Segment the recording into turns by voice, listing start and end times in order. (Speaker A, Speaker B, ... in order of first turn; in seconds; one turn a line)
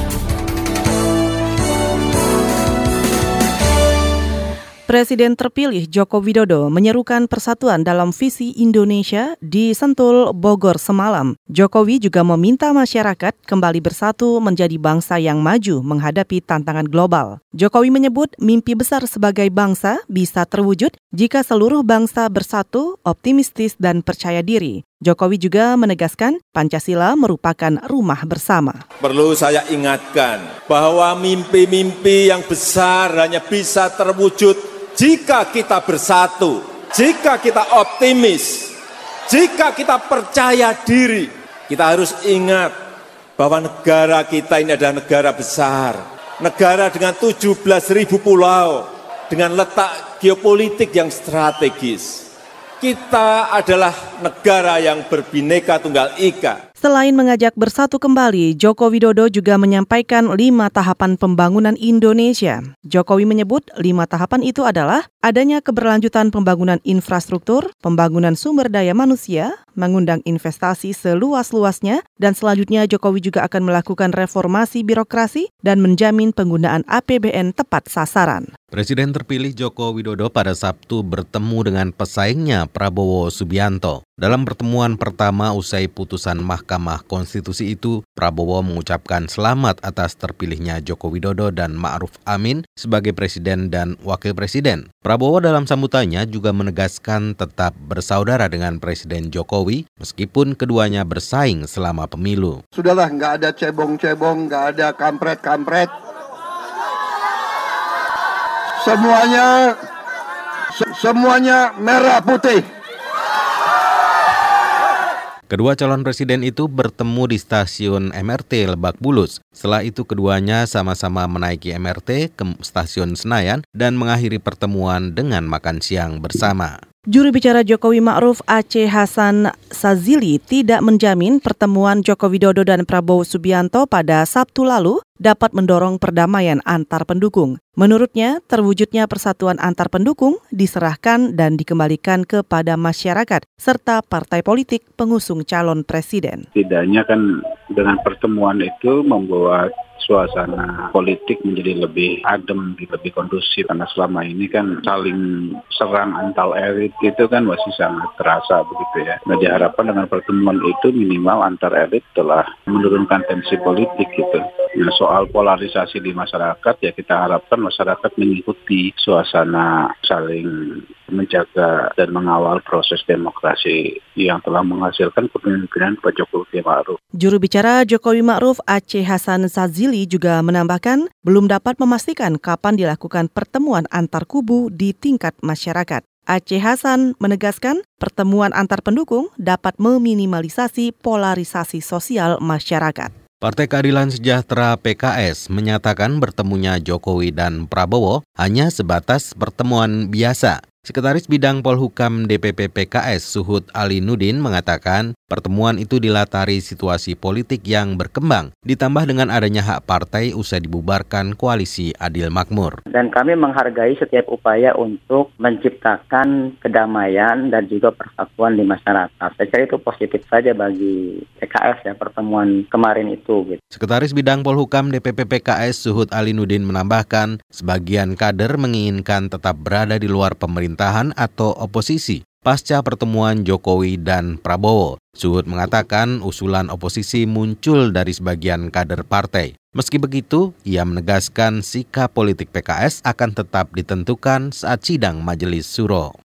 Speaker A: 4.9-28.8
Speaker B: 29.0-38.7
Speaker B: 39.3-42.8
Speaker B: 43.4-52.2
Speaker B: 52.8-56.6
Speaker A: 56.8-78.5
Speaker C: 78.7-102.6
Speaker D: 102.7-105.9
Speaker D: 108.8-109.8
Speaker D: 110.7-112.7
Speaker C: 115.5-126.8
Speaker A: 127.1-146.5
Speaker E: 146.6-147.2
Speaker E: 147.8-155.2
Speaker E: 155.8-170.5
Speaker E: 171.1-177.0
Speaker A: 177.2-193.1
Speaker C: 193.4-212.8
Speaker F: 212.9-223.6
Speaker C: 223.7-246.1